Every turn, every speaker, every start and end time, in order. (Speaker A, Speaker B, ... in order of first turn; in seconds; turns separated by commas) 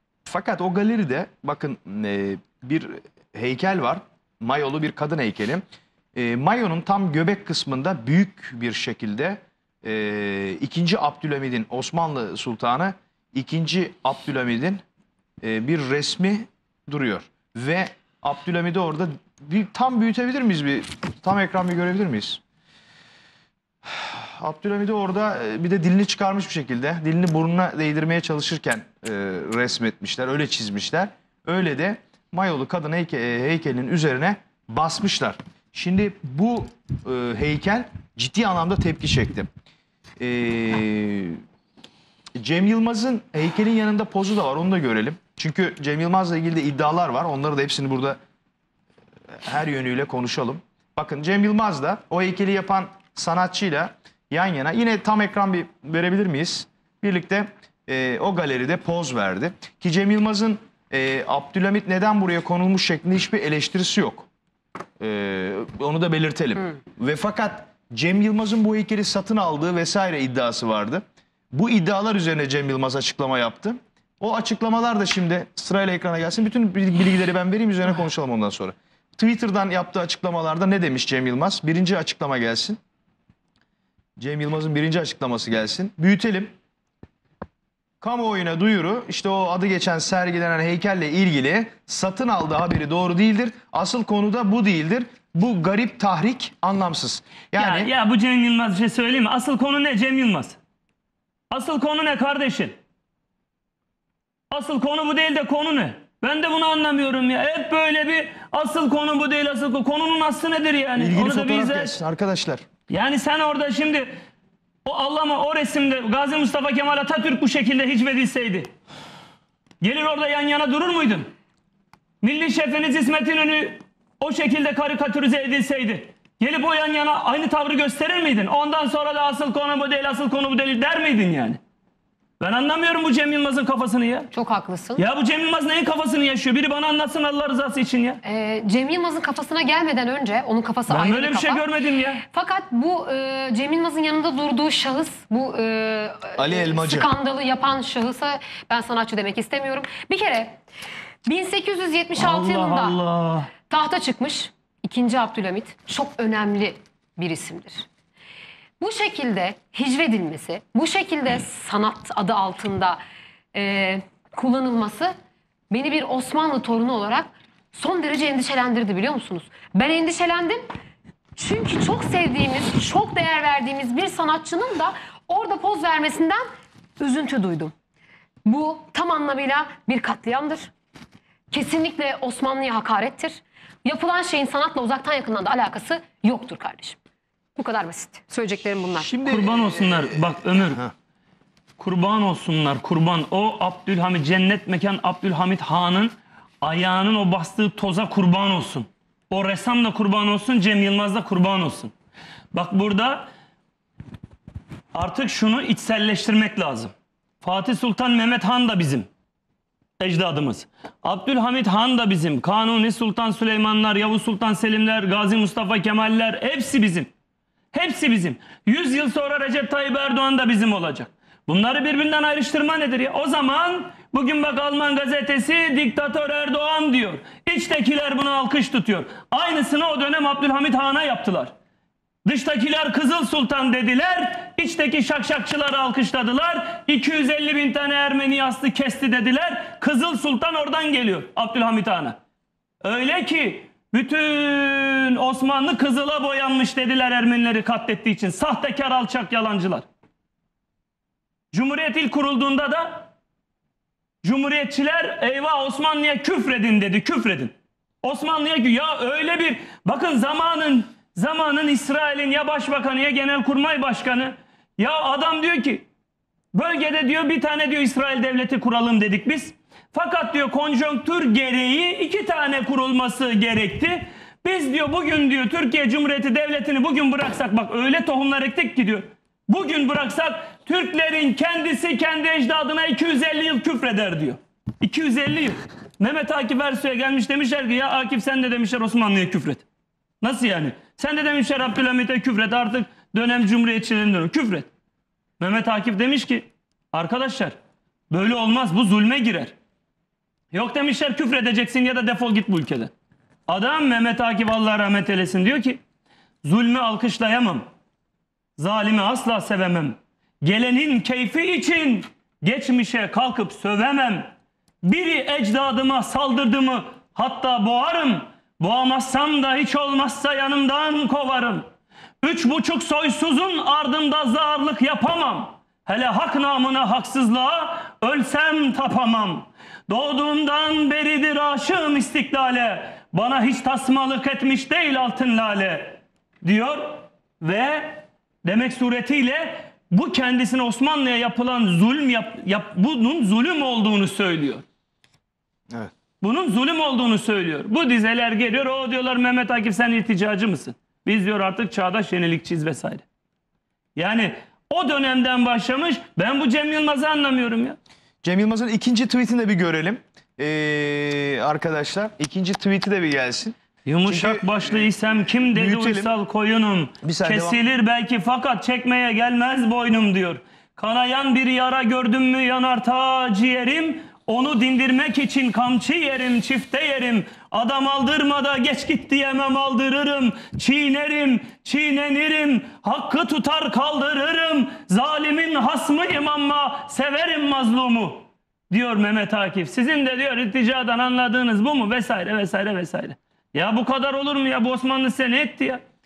Speaker A: 0.3-5.6, Speaker A: 6.2-14.8, Speaker A: 15.4-22.4, Speaker A: 23.9-39.5, Speaker A: 40.2-41.4, Speaker A: 42.4-48.2, Speaker A: 49.4-64.3, Speaker A: 65.0-82.8, Speaker A: 84.2-86.5, Speaker A: 88.0-97.9, Speaker B: 97.6-100.6, Speaker B: 101.5-102.8, Speaker B: 104.5-112.0, Speaker A: 111.0-112.6, Speaker B: 112.9-114.1, Speaker B: 114.8-118.7, Speaker B: 119.8-121.3, Speaker B: 122.2-131.6, Speaker B: 132.4-134.3, Speaker C: 134.3-135.0, Speaker B: 134.9-138.2, Speaker C: 138.2-141.7, Speaker B: 140.9-142.2, Speaker C: 142.3-150.6, Speaker A: 146.4-147.1, Speaker C: 151.3-153.0, Speaker B: 152.1-153.5, Speaker C: 153.7-157.9, Speaker C: 158.8-163.0, Speaker C: 163.5-165.1, Speaker C: 165.7-170.7, Speaker C: 171.4-176.4, Speaker C: 177.0-177.7, Speaker C: 178.4-180.7, Speaker C: 181.5-187.0, Speaker C: 187.6-189.1, Speaker A: 189.0-190.9, Speaker B: 189.3-190.8, Speaker B: 191.8-201.9, Speaker B: 202.5-203.3, Speaker B: 204.9-209.1, Speaker B: 210.0-217.1, Speaker B: 217.7-231.5, Speaker B: 232.2-242.2, Speaker B: 242.8-249.9, Speaker B: 251.5-253.1, Speaker B: 254.2-265.9, Speaker B: 266.5-289.6, Speaker B: 290.2-294.7, Speaker B: 295.4-297.6, Speaker B: 298.1-299.5, Speaker B: 300.5-302.9, Speaker B: 303.5-305.8, Speaker B: 306.4-307.7, Speaker B: 308.6-314.3, Speaker B: 314.8-321.7, Speaker B: 322.2-344.6, Speaker B: 346.2-353.1, Speaker B: 354.0-357.8, Speaker A: 358.2-366.1, Speaker B: 363.9-395.8, Speaker A: 367.0-367.6